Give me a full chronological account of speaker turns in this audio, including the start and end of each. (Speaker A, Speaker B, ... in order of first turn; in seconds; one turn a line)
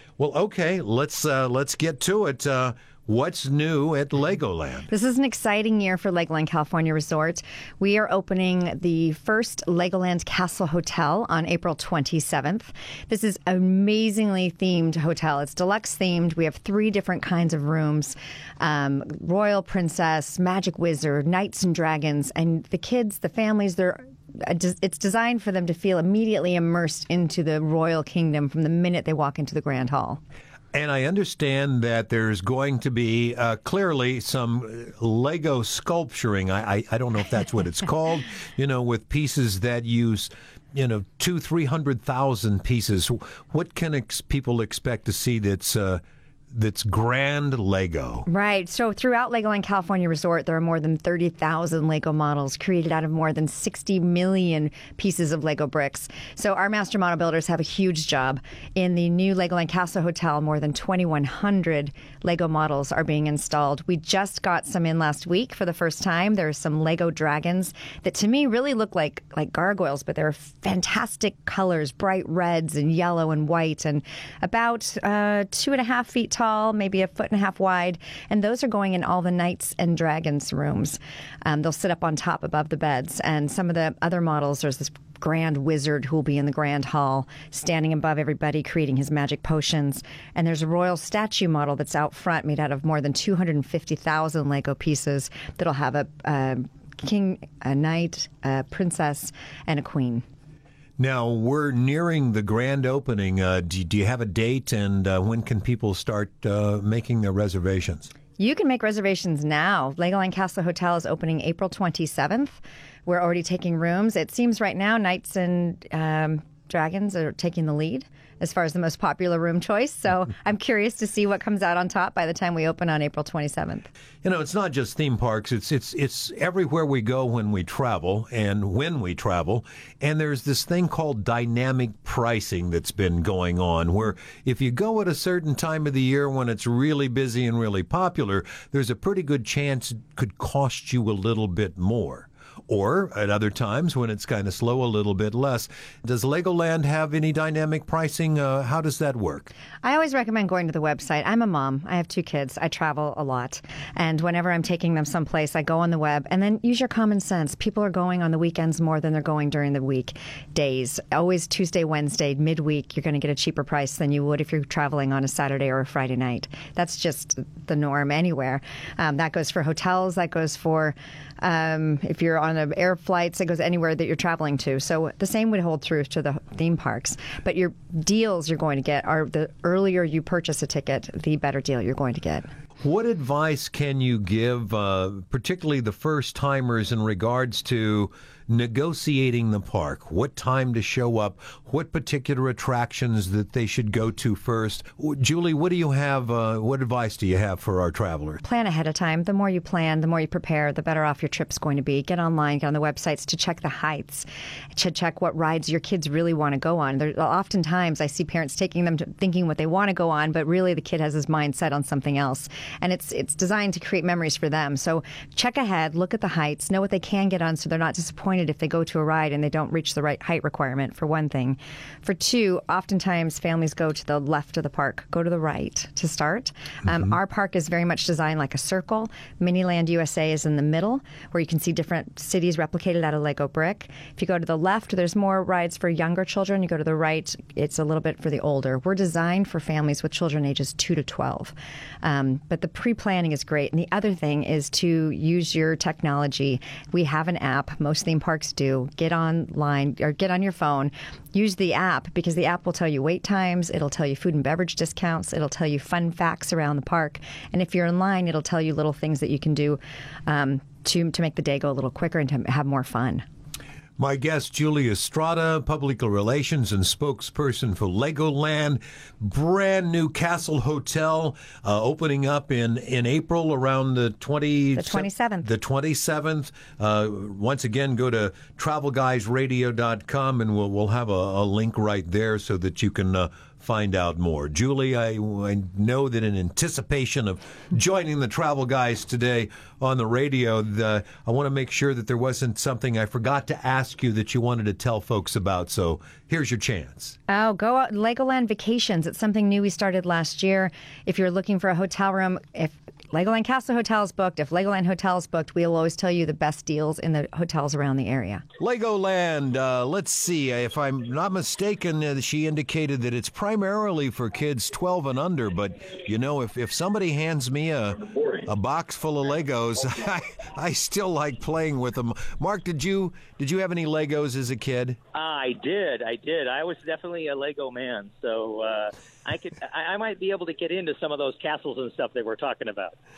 Speaker A: 0.2-4.9
Speaker B: 4.9-30.2
Speaker A: 30.7-48.2
Speaker B: 48.3-100.2
Speaker A: 101.0-108.1
Speaker B: 108.4-123.9
Speaker A: 124.2-149.5
Speaker B: 149.8-182.5
Speaker A: 182.8-198.4
Speaker B: 198.4-263.2
Speaker A: 264.0-297.2
Speaker B: 274.8-275.5
Speaker B: 297.3-308.4
Speaker A: 308.6-325.0
Speaker C: 325.1-332.9